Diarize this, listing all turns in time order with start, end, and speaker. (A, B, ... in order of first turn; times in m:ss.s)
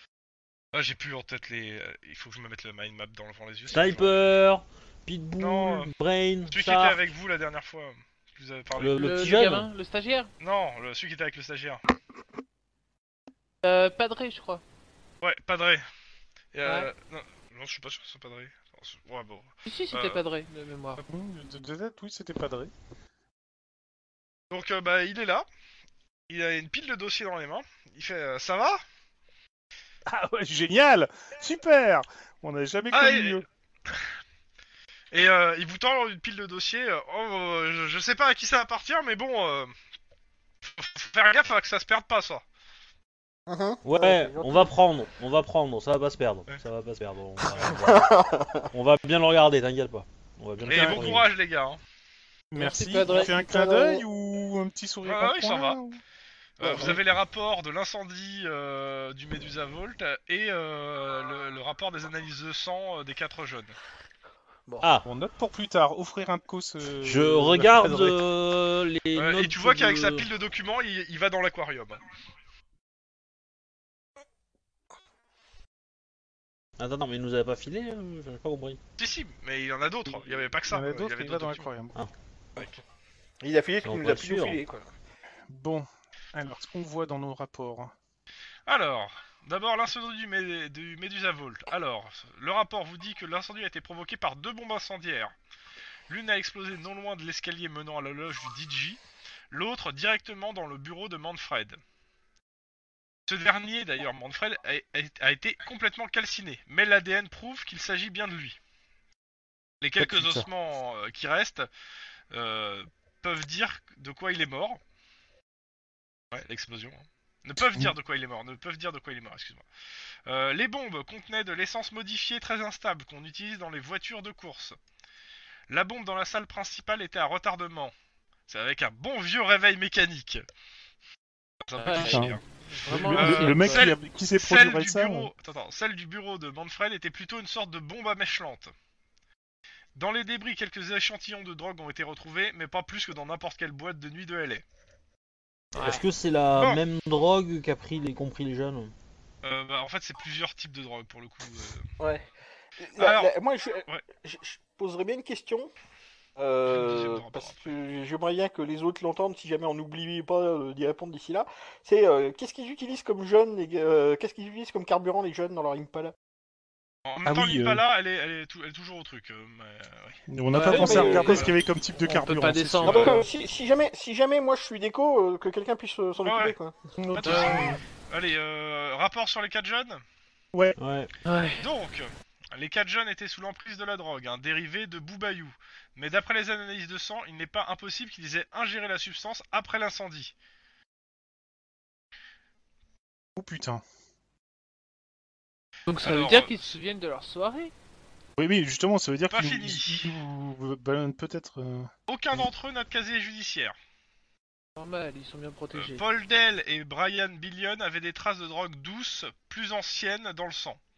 0:00.7-0:04.3 A
0:03.7-0:07.0 B
0:05.4-0:05.9 A
0:06.5-0:09.0 A
0:08.8-0:09.7 B
0:09.0-0:10.3 C
0:10.4-0:11.8 A
0:13.6-0:14.6 C
0:15.2-0:15.8 A
0:16.5-0:20.2 A
0:16.6-0:16.9 C
0:19.6-0:21.0 C
0:21.1-0:22.7 D
0:24.5-0:25.5 A
0:26.3-0:28.8 A
0:30.1-0:33.5 D
0:32.9-0:34.1 A
0:35.1-0:39.8 A
0:40.6-0:42.4 A
0:43.5-0:44.7 E
0:43.8-0:48.2 B
0:47.6-0:48.6 E
0:48.7-0:51.3 B
0:50.7-0:51.8 A
0:52.5-0:56.0 D
0:52.6-0:54.0 C
0:55.0-0:55.8 A
0:56.6-1:03.8 A
0:56.6-0:57.0 D
1:04.8-1:05.1 B
1:05.0-1:08.2 D
1:07.0-1:10.3 B
1:09.1-1:12.0 A
1:16.8-1:18.8 B
1:19.0-1:21.7 A
1:20.7-1:22.0 D
1:23.4-1:24.9 E
1:23.8-1:24.6 B
1:25.5-1:27.9 D
1:28.7-1:35.3 A
1:36.1-1:39.0 A
1:39.5-1:41.8 A
1:43.3-1:48.6 A
1:49.8-1:51.7 A
1:50.0-1:50.5 D
1:52.3-1:54.8 A
1:56.3-1:59.6 A
1:57.6-1:57.9 D
2:00.3-2:04.8 A
2:05.7-2:07.9 A
2:08.5-2:10.4 A
2:11.6-2:18.7 A
2:11.8-2:13.9 C
2:12.0-2:15.3 D
2:20.0-2:24.6 A
2:25.7-2:28.9 B
2:25.8-2:26.0 C
2:29.4-2:31.8 A
2:32.0-2:32.2 E
2:32.8-2:35.7 E
2:33.0-2:33.3 A
2:36.4-2:46.1 E
2:36.7-2:37.8 A
2:47.1-2:50.2 A
2:47.2-2:47.8 D
2:50.3-2:53.1 D
2:50.5-2:51.5 C
2:50.7-2:51.4 E
2:50.7-2:51.5 A
2:52.0-2:53.2 C
2:52.8-2:56.9 E
2:56.2-2:56.6 A
2:57.0-2:57.8 C
2:57.2-3:00.0 A
2:57.2-2:57.7 D
3:00.8-3:01.1 B
3:01.3-3:01.6 C
3:01.6-3:10.3 A
3:13.4-3:13.8 D
3:15.9-3:17.7 C
3:16.0-3:16.7 A
3:18.4-3:21.9 D
3:19.3-3:20.1 A
3:22.1-3:23.8 A
3:24.8-3:26.0 C
3:25.8-3:30.8 A